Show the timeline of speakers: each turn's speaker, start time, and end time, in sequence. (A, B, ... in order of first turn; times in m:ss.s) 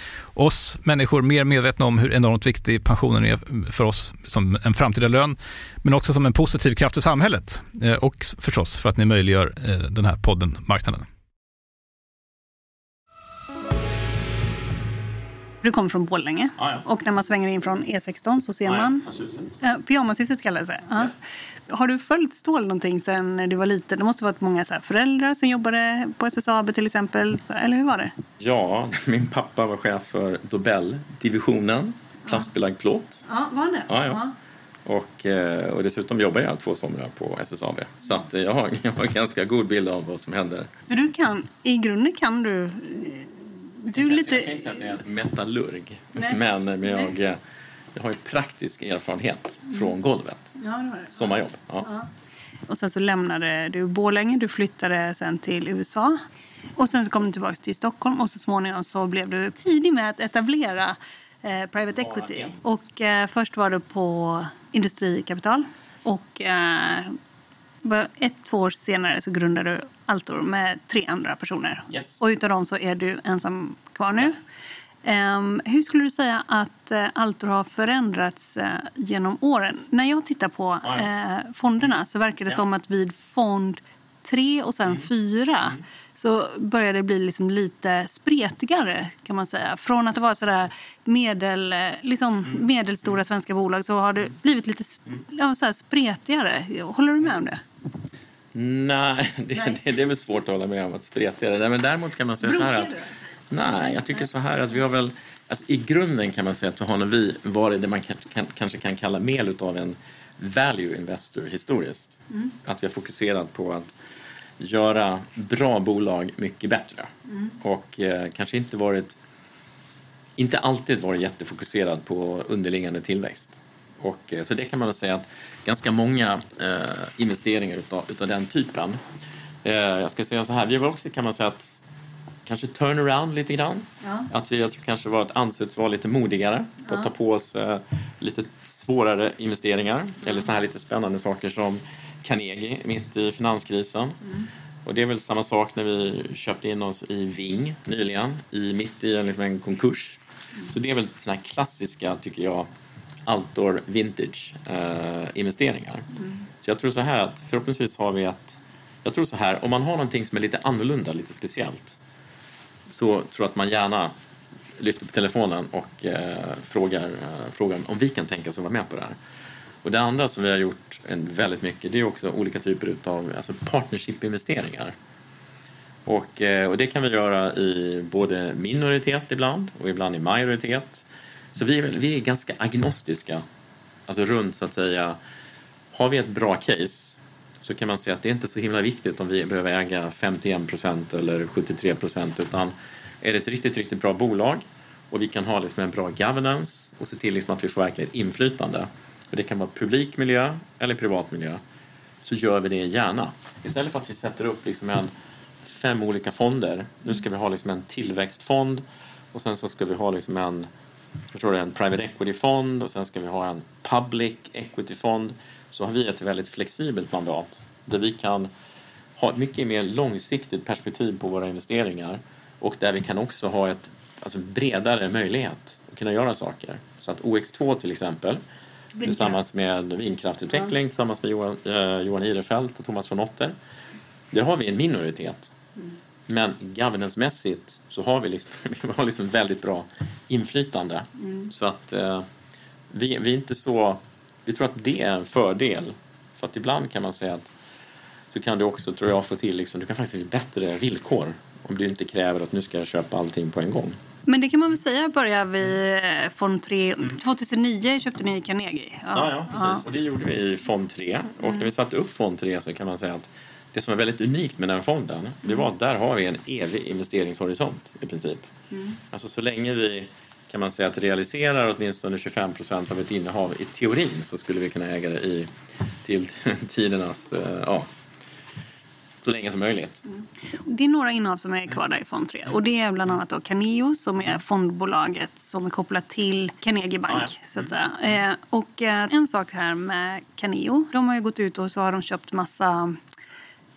0:00.3-0:11.0 A
0:15.6-0:19.0 B
0:16.6-0:16.8 C
0:18.6-0:19.6 C
0:19.6-0:21.1 B
0:21.7-0:28.1 B
0:28.4-0:33.2 C
0:33.2-0:34.3 B
0:33.9-0:34.2 C
0:34.8-0:40.7 C
0:40.8-0:44.9 B
0:43.9-0:47.4 C
0:46.1-0:47.1 B
0:47.9-0:50.6 C
0:50.6-0:51.3 B
0:51.1-0:51.9 C
0:52.7-0:56.2 B
0:56.8-1:07.2 B
1:02.0-1:02.5 C
1:07.8-1:14.4 B
1:11.9-1:12.2 C
1:15.0-1:37.6 B
1:38.5-1:42.9 C
1:42.4-1:43.1 B
1:43.5-1:54.0 C
1:43.8-1:44.1 B
1:54.6-1:59.2 C
2:00.4-2:09.0 C
2:09.6-2:11.8 C
2:12.4-2:24.2 C
2:14.0-2:14.3 B
2:24.8-2:32.7 C
2:33.2-2:36.1 C
2:36.6-2:42.0 C
2:42.9-2:44.1 C
2:44.8-2:49.2 C
2:49.8-2:54.9 C
2:56.0-3:03.4 C
3:04.1-3:05.2 C
3:05.9-3:21.6 C
3:22.2-3:25.1 C
3:25.6-3:30.7 C
3:31.3-3:38.5 C
3:39.2-3:48.4 C
3:49.0-3:49.6 B
3:49.0-3:53.5 C
3:54.3-3:55.5 C
3:56.3-4:02.2 C
4:02.9-4:07.5 C
4:08.3-4:14.0 C
4:14.3-4:19.8 B
4:19.1-4:28.5 C
4:28.7-4:29.0 B
4:29.1-4:35.5 C
4:36.0-4:37.9 C
4:39.2-4:40.0 C
4:40.5-4:53.0 B
4:47.1-4:47.3 C